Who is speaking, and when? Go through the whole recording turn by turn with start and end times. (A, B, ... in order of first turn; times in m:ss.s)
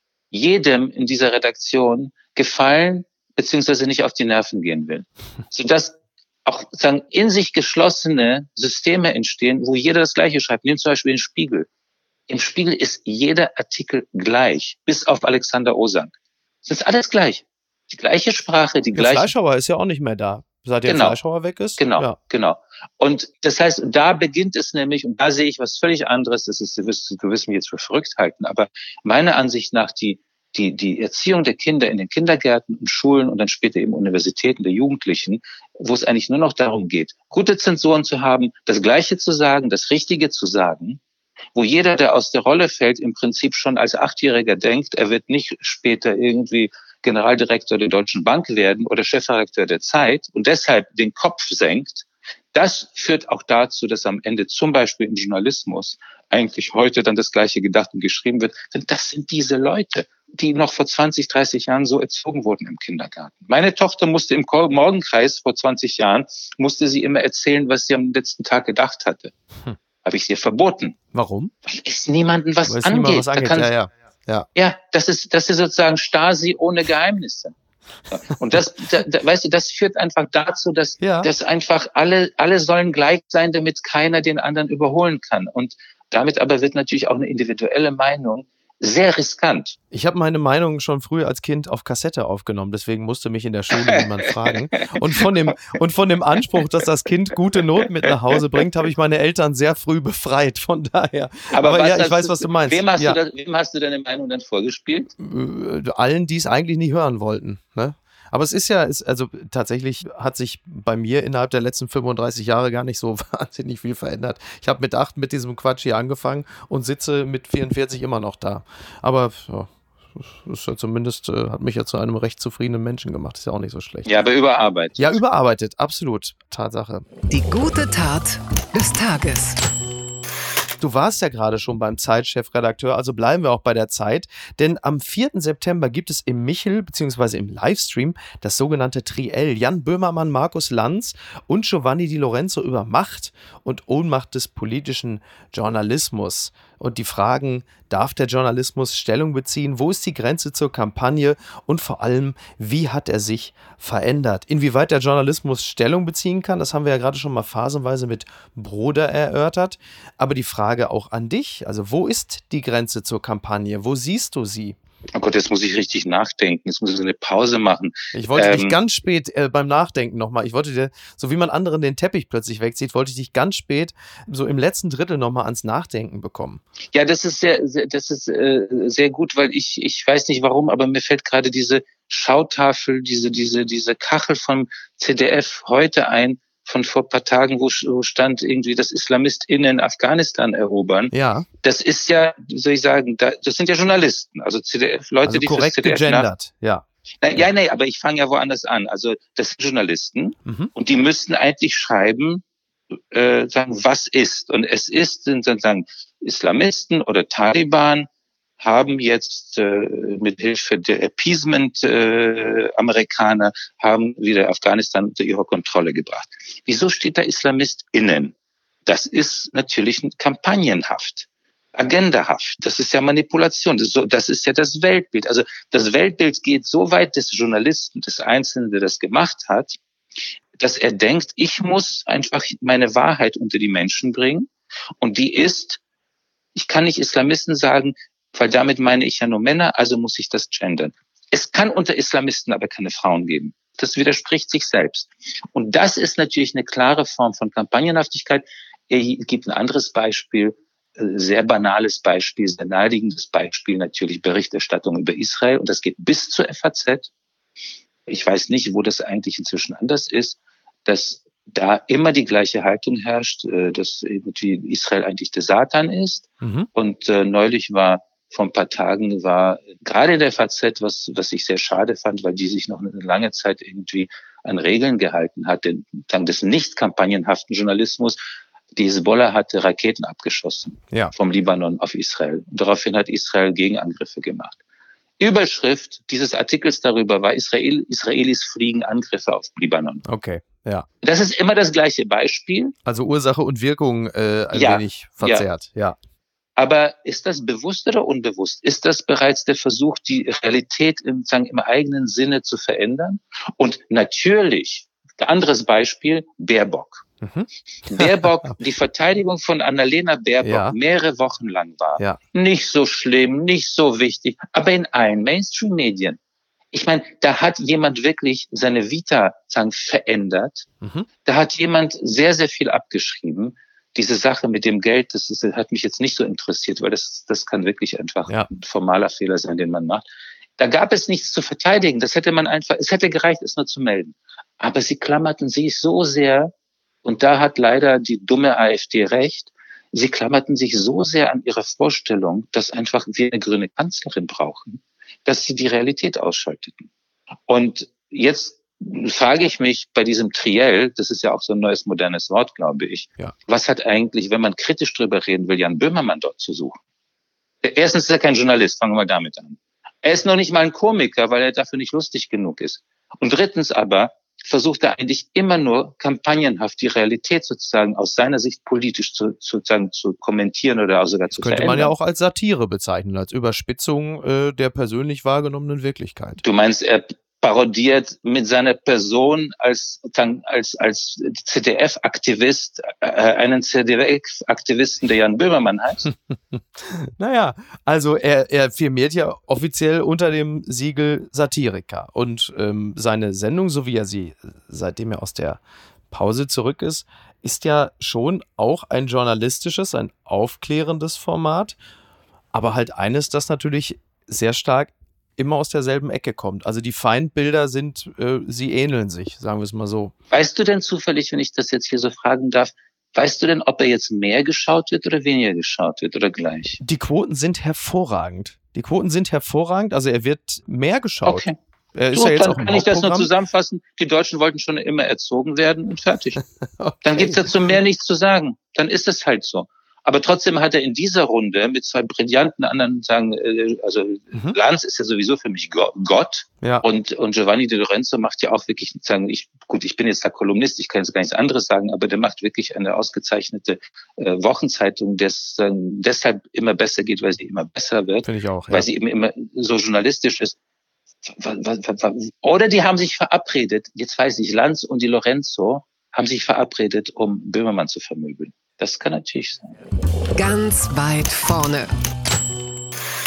0:00.3-0:11.7 A
0:12.3-0:16.1 A
0:16.6-0:19.3 A
0:18.9-0:22.2 B
0:20.9-0:21.2 A
0:21.8-0:41.0 A
0:41.5-1:09.3 A
1:10.0-1:11.0 A
1:11.1-1:11.5 B
1:11.6-1:13.7 A
1:12.7-1:14.5 B
1:14.6-1:17.5 A
1:18.1-1:29.8 A
1:21.0-1:21.3 B
1:29.9-1:43.2 B
1:33.8-1:35.5 A
1:41.5-1:45.1 A
1:45.2-2:04.1 B
2:04.0-2:05.2 A
2:05.0-2:07.0 B
2:07.3-2:09.6 C
2:10.8-2:44.8 B
2:45.1-2:48.7 A
2:48.1-2:56.6 B
2:56.9-3:11.1 A
3:11.1-3:11.5 B
3:11.6-3:16.3 A
3:15.2-3:16.8 B
3:17.2-3:22.4 A
3:20.4-3:20.7 B
3:23.1-3:28.1 A
3:28.6-3:38.3 A
3:38.8-3:49.8 A
3:50.6-3:54.5 A
3:55.0-3:55.8 A
3:56.5-4:17.1 A
4:18.1-4:38.2 A
4:26.4-4:26.7 B
4:38.7-4:44.6 A
4:45.2-4:50.0 A
4:50.0-4:50.8 B
4:51.0-4:52.7 A
4:52.8-4:56.0 B
4:54.5-4:55.4 A
4:56.6-5:07.0 A
5:07.2-5:08.5 B
5:07.9-5:16.2 A
5:10.4-5:10.7 B
5:16.7-5:20.7 A
5:20.8-5:21.1 B
5:21.2-5:30.0 A
5:30.6-5:36.5 A
5:37.0-5:46.9 A
5:47.5-5:56.8 A
5:57.6-6:11.9 A
6:11.4-6:16.4 B
6:16.4-6:26.1 A
6:26.3-6:35.6 B
6:36.1-6:41.8 B
6:42.5-6:50.1 B
6:50.3-6:56.8 A
6:56.8-7:03.3 B
7:01.2-7:01.5 A
7:02.1-7:06.4 A
7:06.6-7:07.5 B
7:07.0-7:30.6 A
7:28.2-7:28.9 B
7:31.2-7:39.8 A
7:40.3-7:41.9 C